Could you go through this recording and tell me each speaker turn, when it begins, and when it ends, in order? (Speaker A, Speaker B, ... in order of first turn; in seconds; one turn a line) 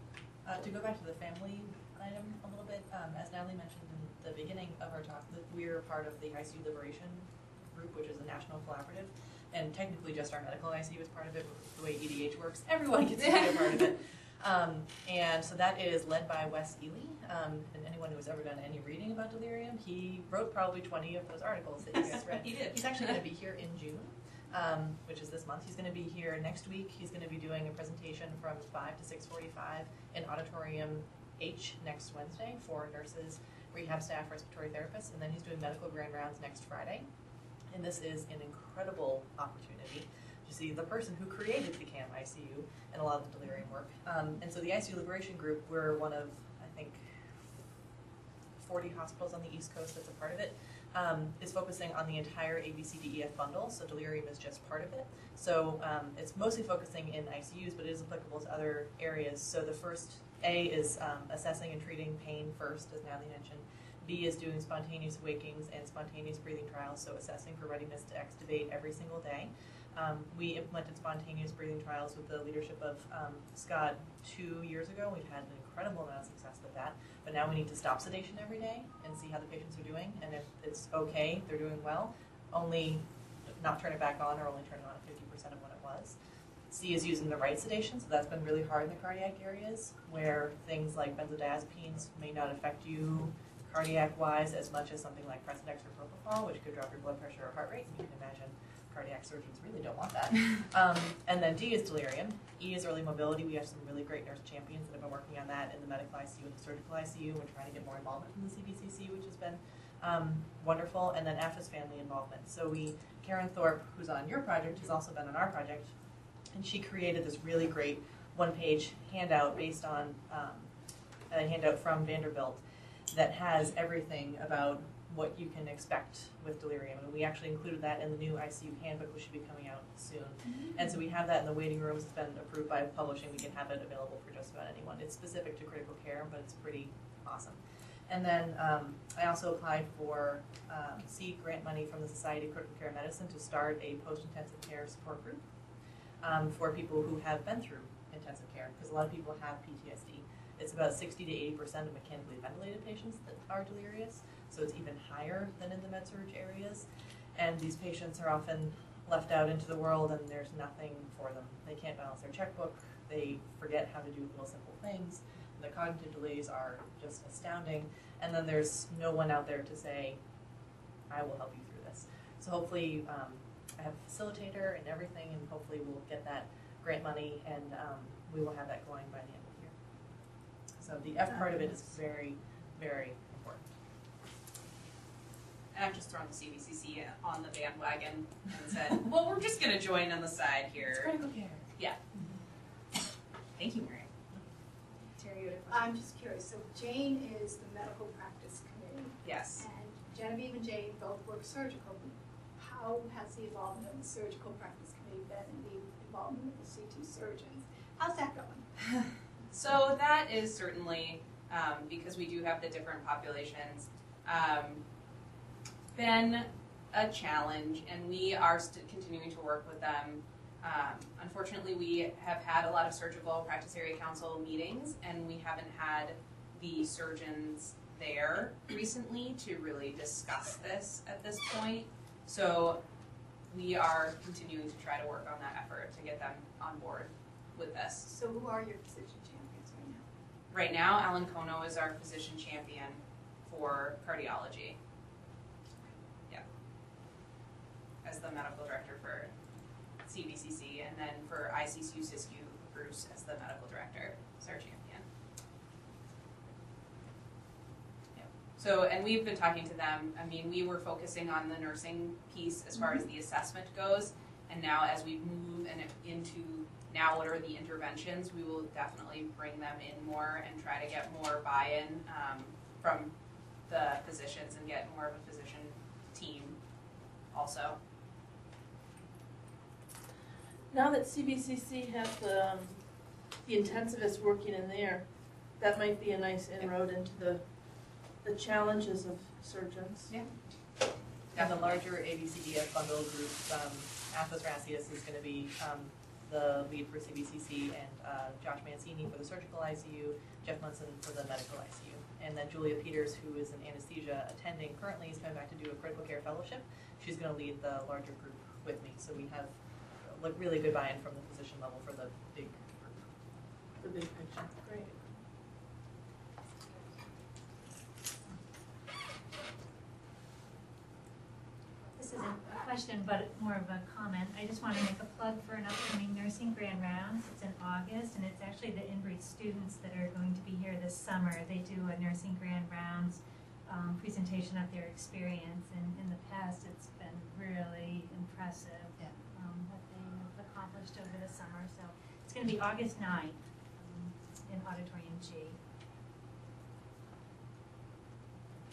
Speaker A: 0.4-37.1
Speaker B: 13.2-13.8
Speaker B: 22.0-23.2
Speaker A: 37.7-47.2
Speaker A: 48.6-83.0
Speaker A: 83.5-86.1
Speaker A: 86.7-115.9
Speaker A: 116.5-120.7
Speaker A: 121.3-145.4
Speaker A: 146.2-170.2
Speaker A: 171.1-179.7
Speaker A: 180.8-183.7
Speaker B: 185.7-191.1
Speaker B: 191.7-192.0
Speaker B: 193.6-194.1
Speaker B: 195.2-195.8
Speaker C: 195.6-208.6
Speaker B: 199.2-199.7
Speaker B: 208.8-214.8
Speaker B: 215.9-232.8
Speaker B: 233.5-238.1
Speaker C: 238.0-240.0
Speaker B: 240.5-244.8
Speaker B: 248.0-249.3
Speaker B: 250.1-255.0
Speaker B: 258.1-273.1
Speaker B: 273.7-276.6
Speaker B: 277.3-277.8
Speaker D: 280.7-287.4
Speaker D: 288.2-290.1
Speaker B: 291.3-291.8
Speaker A: 291.4-313.0
Speaker D: 313.8-315.1
Speaker E: 321.9-345.6